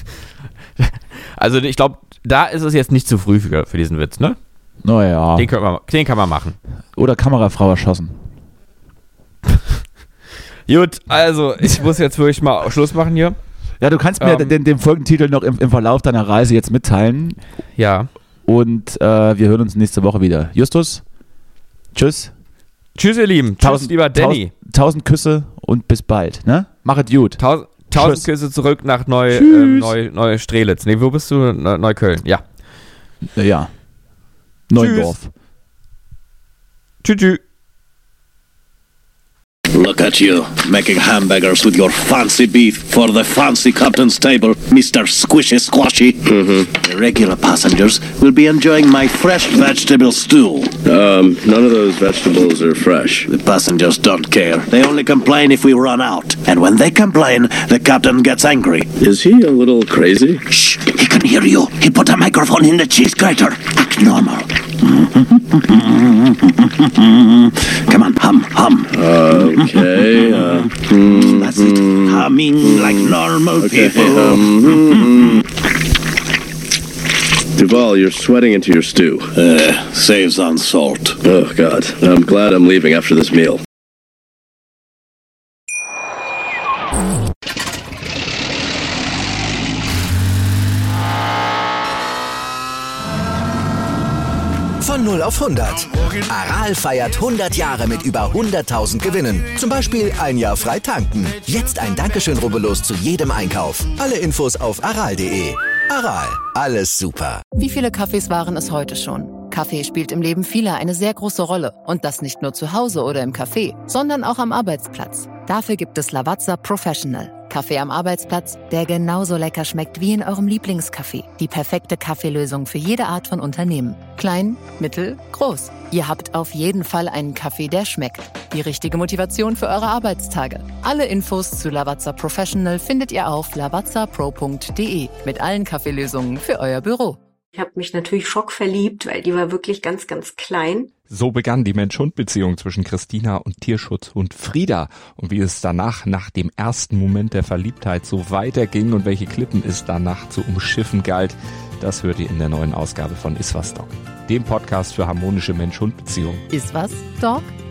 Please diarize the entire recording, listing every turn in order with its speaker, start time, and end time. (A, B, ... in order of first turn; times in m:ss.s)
0:00.8-0:04.4 A
0:04.8-0:05.5 B
0:05.4-0:06.6 A
0:06.9-0:08.2 B
0:10.7-0:13.4 A
0:13.8-0:17.4 B
0:14.2-0:14.5 A
0:17.8-0:18.1 A
0:18.4-0:21.0 B
0:21.9-0:22.3 B
0:22.9-0:24.5 A
0:23.6-0:27.4 B
0:27.4-0:32.4 A
0:27.9-0:28.3 B
0:29.3-0:30.0 B
0:33.3-0:33.7 B
0:34.7-0:35.3 B
0:34.8-0:35.2 A
0:37.0-0:37.4 A
0:39.7-0:46.2 C
0:46.2-0:46.8 D
0:46.8-0:50.8 C
0:50.8-0:53.2 D
0:53.3-0:58.9 C
0:59.0-1:00.4 D
1:00.5-1:06.3 C
1:07.0-1:07.3 C
1:07.9-1:08.9 C
1:08.9-1:15.4 D
1:11.0-1:14.5 C
1:17.6-1:19.3 D
1:19.4-1:21.2 C
1:21.2-1:23.6 D
1:34.8-1:47.4 E
1:47.6-2:17.2 F
2:17.5-2:20.9 G
2:21.1-2:36.4 H
2:36.5-2:37.5 F